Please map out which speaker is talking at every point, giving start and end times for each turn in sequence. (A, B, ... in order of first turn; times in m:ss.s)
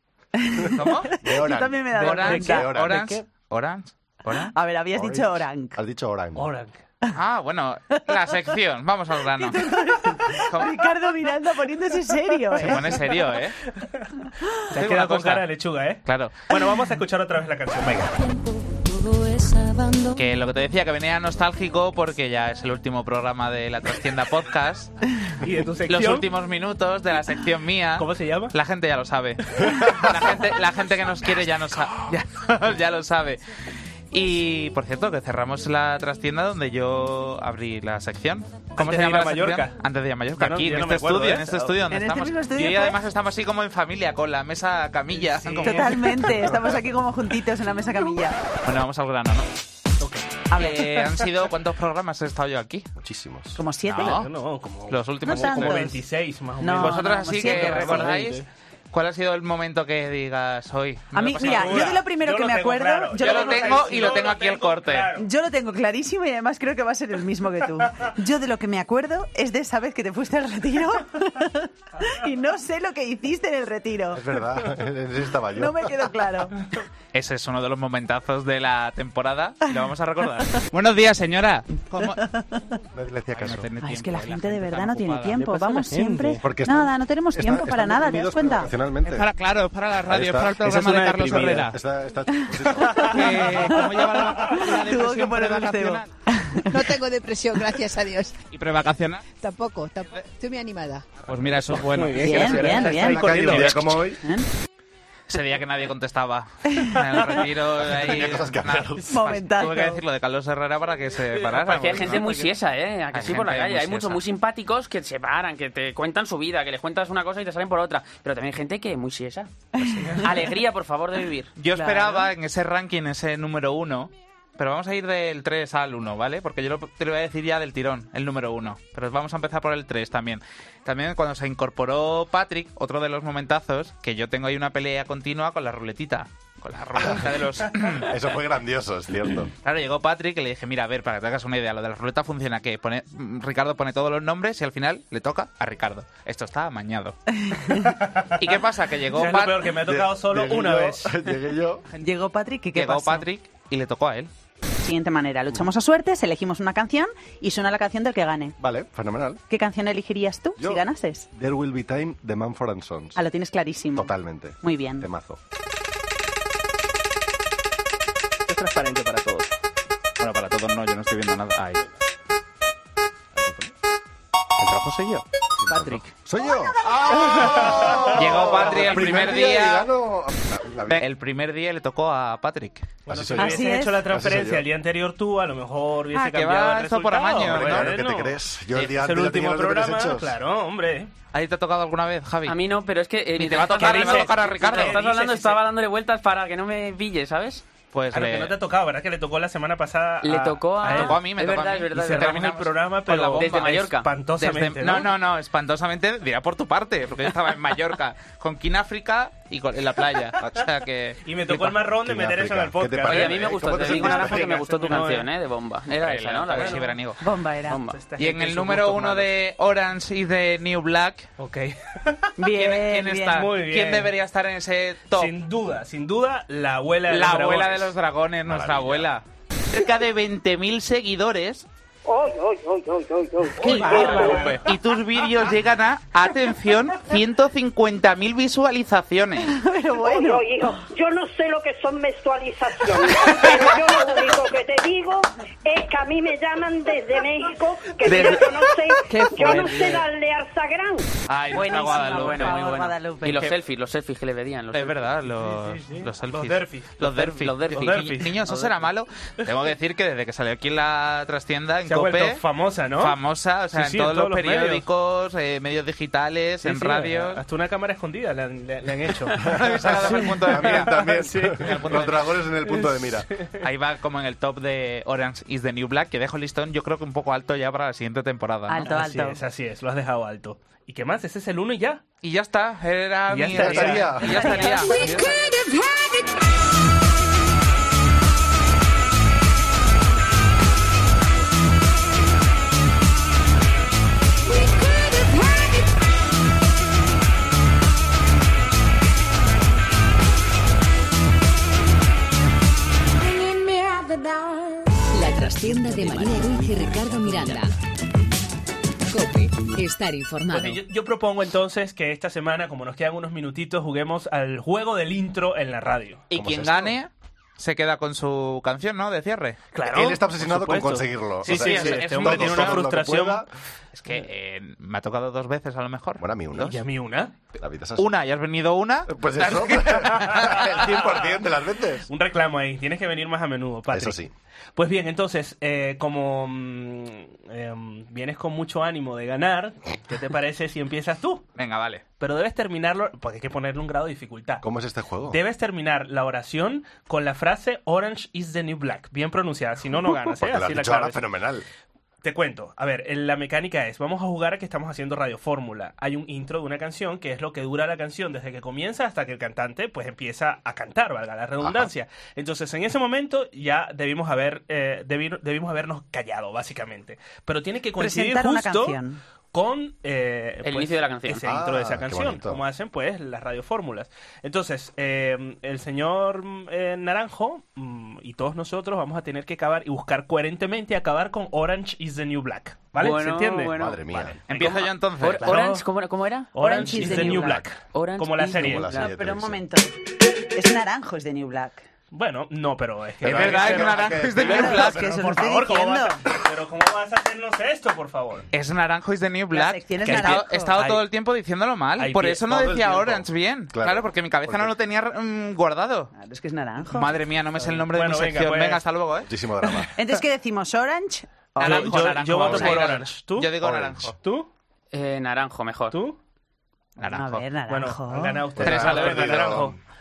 0:00.4-0:02.9 A
0:00.7-0:01.1 B
0:01.2-0:03.2 C
0:01.9-0:04.5 B
0:04.5-0:05.8 A
0:04.9-0:06.5 C
0:06.4-0:06.8 D
0:07.1-0:09.8 B
0:09.3-0:12.9 A
0:10.3-0:10.8 B
0:12.6-0:13.6 B
0:12.6-0:13.3 D
0:13.8-0:14.1 D
0:14.7-0:18.1 D
0:14.7-0:15.4 B
0:16.0-0:16.5 B
0:19.9-0:20.1 E
0:20.1-0:24.9 B
0:25.4-0:26.3 D
0:25.9-0:33.4 B
0:28.0-0:28.5 D
0:34.1-0:45.9 B
0:38.8-0:39.8 D
0:40.4-0:41.8 D
0:41.9-0:43.0 A
0:45.2-0:46.1 D
0:45.6-0:48.4 A
0:46.3-0:46.7 C
0:48.6-0:49.4 B
0:50.0-0:50.4 D
0:50.5-0:50.9 A
0:50.5-0:52.9 B
0:53.0-0:53.6 C
0:53.6-0:54.2 A
0:53.9-0:54.3 B
0:54.0-0:58.4 D
0:54.9-0:55.8 B
0:55.2-0:56.0 A
0:56.6-0:58.2 A
0:56.7-1:01.9 B
1:01.1-1:04.2 A
1:01.4-1:05.2 D
1:03.2-1:05.1 B
1:05.2-1:14.2 A
1:14.1-1:15.9 C
1:15.5-1:16.6 A
1:17.1-1:22.2 B
1:22.9-1:23.7 C
1:23.3-1:25.5 B
1:23.8-1:28.7 A
1:26.4-1:29.2 C
1:29.0-1:31.8 B
1:30.0-1:33.1 C
1:30.7-1:31.7 D
1:32.4-1:36.9 A
1:33.0-1:36.1 B
1:36.7-1:38.3 F
1:38.5-1:39.2 B
1:39.4-1:41.0 F
1:41.2-1:42.9 B
1:41.7-1:44.1 D
1:42.2-1:43.6 A
1:42.9-1:44.2 C
1:43.5-1:43.8 B
1:44.2-1:44.5 A
1:45.3-1:52.4 B
1:47.8-1:49.1 C
1:49.1-1:50.0 A
1:51.6-1:59.5 G
1:51.6-1:52.4 D
1:53.1-1:54.2 B
1:59.8-2:00.2 A
2:00.0-2:00.4 D
2:00.2-2:01.5 G
2:01.6-2:18.1 B
2:01.7-2:02.3 A
2:17.0-2:17.2 C
2:18.0-2:19.5 C
2:19.6-2:27.2 B
2:27.5-2:27.9 A
2:28.4-2:29.7 B
2:29.1-2:31.2 D
2:29.8-2:31.8 C
2:32.0-2:33.2 A
2:32.7-2:34.3 B
2:34.8-2:38.6 A
2:38.6-2:39.4 C
2:39.5-2:41.3 A
2:40.6-2:43.2 C
2:43.2-2:45.1 A
2:44.0-2:45.4 C
2:48.5-2:49.5 D
2:50.2-2:51.8 B
2:53.3-2:53.7 C
2:54.6-2:55.2 B
2:55.6-3:01.0 C
2:55.7-2:56.0 D
2:57.2-2:59.2 D
2:58.1-2:59.9 B
3:00.9-3:03.0 B
3:03.1-3:04.6 C
3:03.1-3:11.1 D
3:03.4-3:04.0 A
3:06.1-3:07.9 B
3:07.4-3:10.3 C
3:11.3-3:12.6 B
3:12.4-3:17.6 G
3:13.4-3:15.0 B
3:13.7-3:15.6 D
3:17.9-3:18.5 B
3:18.1-3:21.2 D
3:20.2-3:22.5 G
3:20.8-3:23.7 B
3:21.9-3:25.1 D
3:23.3-3:24.1 G
3:24.4-3:31.8 B
3:31.2-3:35.3 D
3:32.0-3:34.5 C
3:33.1-3:36.9 G
3:36.0-3:37.2 B
3:36.5-3:37.0 D
3:37.2-3:37.8 A
3:37.7-3:38.0 G
3:37.9-3:39.3 D
3:38.2-3:41.3 B
3:41.4-3:42.2 D
3:42.4-3:43.5 A
3:42.5-3:45.3 B
3:43.3-3:44.1 D
3:45.1-3:47.9 D
3:47.1-3:51.6 B
3:48.5-3:49.1 C
3:52.0-3:54.6 H
3:53.6-3:59.6 B
3:53.6-3:54.6 D
3:53.7-3:54.0 A
3:59.4-4:00.5 A
4:00.0-4:11.0 H
4:11.3-4:12.8 B
4:11.5-4:13.5 A
4:12.0-4:15.1 G
4:14.7-4:22.4 B
4:15.4-4:18.4 D
4:17.0-4:18.8 G
4:21.8-4:23.2 D
4:23.0-4:27.4 B
4:23.7-4:24.8 D
4:26.6-4:32.1 D
4:29.4-4:33.3 C
4:29.4-4:31.1 B
4:31.6-4:32.2 B
4:32.6-4:33.5 D
4:33.6-4:39.0 B
4:38.7-4:39.4 A
4:38.8-4:42.0 D
4:42.2-4:45.2 B
4:43.3-4:44.2 D
4:43.5-4:44.3 C
4:44.2-4:45.1 A
4:44.6-4:46.4 I
4:54.4-4:55.9 I
5:03.2-5:04.9 I
5:05.1-5:07.7 E
5:09.1-5:10.8 E
5:10.5-5:16.2 D
5:16.3-5:19.6 B
5:16.3-5:16.9 C
5:19.7-5:23.4 D
5:19.9-5:23.5 C
5:21.4-5:22.9 B
5:23.9-5:26.2 B
5:26.2-5:26.8 C
5:26.5-5:27.3 D
5:27.6-5:28.1 C
5:28.0-5:30.5 B
5:29.1-5:32.1 C
5:30.0-5:31.2 D
5:32.1-5:34.2 D
5:33.9-5:34.3 C
5:34.8-5:41.4 D
5:41.6-5:42.0 B
5:42.2-5:44.6 D
5:44.6-5:45.4 C
5:45.3-5:51.2 D
5:50.1-5:51.6 C
5:52.2-6:09.0 D
6:01.6-6:01.9 C
6:08.0-6:09.2 A
6:09.5-6:23.8 D
6:10.6-6:11.4 G
6:11.4-6:12.6 C
6:23.0-6:29.1 G
6:23.7-6:24.4 C
6:24.5-6:25.5 B
6:24.5-6:24.8 D
6:25.3-6:25.8 D
6:26.5-6:28.9 D
6:26.6-6:27.6 A
6:28.5-6:29.6 C
6:28.9-6:30.0 A
6:30.5-6:31.8 A
6:32.1-6:38.5 D
6:33.2-6:34.9 C
6:33.2-6:35.1 B
6:34.4-6:36.2 A
6:38.5-6:46.1 B
6:39.5-6:40.8 A
6:40.0-6:41.0 D
6:42.0-6:42.6 D
6:42.5-6:44.7 C
6:46.1-6:47.1 A
6:46.9-6:49.3 B
6:47.6-6:48.8 D
6:49.3-6:49.9 C
6:50.0-6:52.5 A
6:51.6-6:54.1 B
6:51.6-6:53.6 D
6:52.4-6:52.7 C
6:53.6-6:54.1 C
6:54.2-6:54.5 D
6:54.9-6:56.0 G
6:55.9-6:56.2 D
6:57.0-6:57.5 B
6:57.0-6:58.4 A
6:57.7-6:59.7 D
6:58.6-6:59.8 C
6:58.6-6:59.5 B